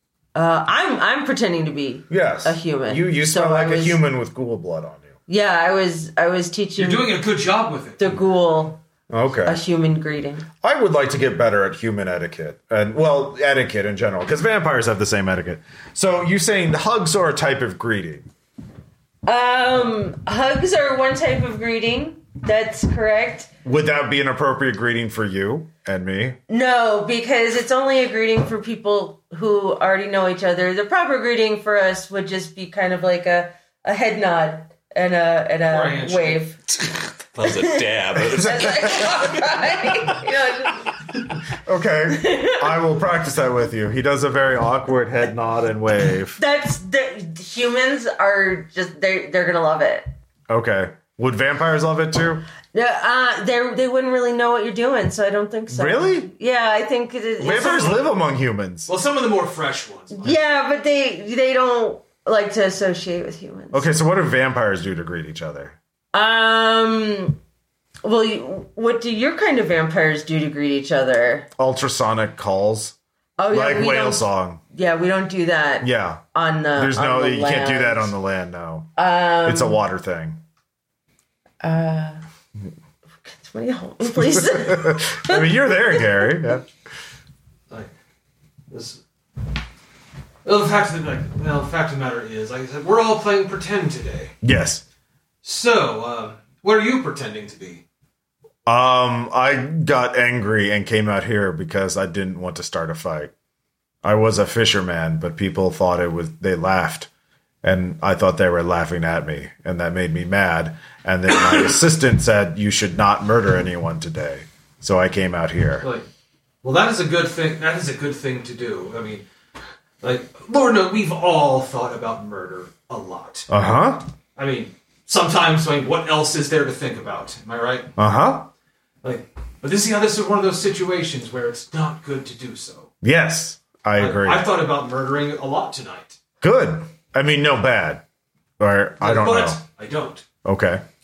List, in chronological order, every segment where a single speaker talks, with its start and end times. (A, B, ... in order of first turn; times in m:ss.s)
0:00.4-0:04.0 A
0:02.1-0:05.1 B
0:05.3-0:07.1 A
0:06.8-0:08.2 C
0:08.0-0:08.8 A
0:09.1-0:09.6 B
0:09.4-0:10.5 A
0:10.6-0:18.3 B
0:19.2-0:23.5 A
0:23.6-0:26.4 B
0:26.5-0:36.6 A
0:35.7-0:36.4 C
0:37.3-0:39.6 D
0:37.5-0:40.9 A
0:38.2-0:39.1 B
0:41.6-0:46.4 B
0:42.1-0:42.8 A
0:46.4-0:50.1 A
0:50.5-0:52.4 B
0:52.7-0:58.0 A
0:55.7-0:56.3 B
0:57.4-0:58.9 B
0:57.5-0:58.1 C
0:58.9-1:00.4 C
1:00.1-1:03.9 A
1:03.7-1:05.8 B
1:06.1-1:07.4 A
1:08.0-1:11.5 A
1:11.6-1:13.0 B
1:13.4-1:18.1 A
1:13.5-1:14.6 B
1:15.8-1:16.2 B
1:16.8-1:18.9 B
1:19.0-1:19.8 A
1:19.4-1:20.4 B
1:21.6-1:22.2 A
1:23.3-1:26.0 A
1:24.2-1:26.7 B
1:28.7-1:29.0 C
1:30.4-1:34.3 C
1:34.4-1:34.8 B
1:35.4-1:37.8 C
1:38.7-1:43.3 B
1:44.0-1:47.1 B
1:47.6-1:55.9 B
1:55.8-1:56.1 C
1:56.6-1:59.2 C
2:00.0-2:03.5 C
2:03.5-2:04.1 B
2:04.4-2:07.9 C
2:08.0-2:08.5 B
2:09.0-2:12.9 C
2:13.0-2:14.5 B
2:14.0-2:16.2 C
2:16.4-2:18.0 B
2:18.6-2:19.6 B
2:19.0-2:20.2 C
2:20.4-2:20.8 B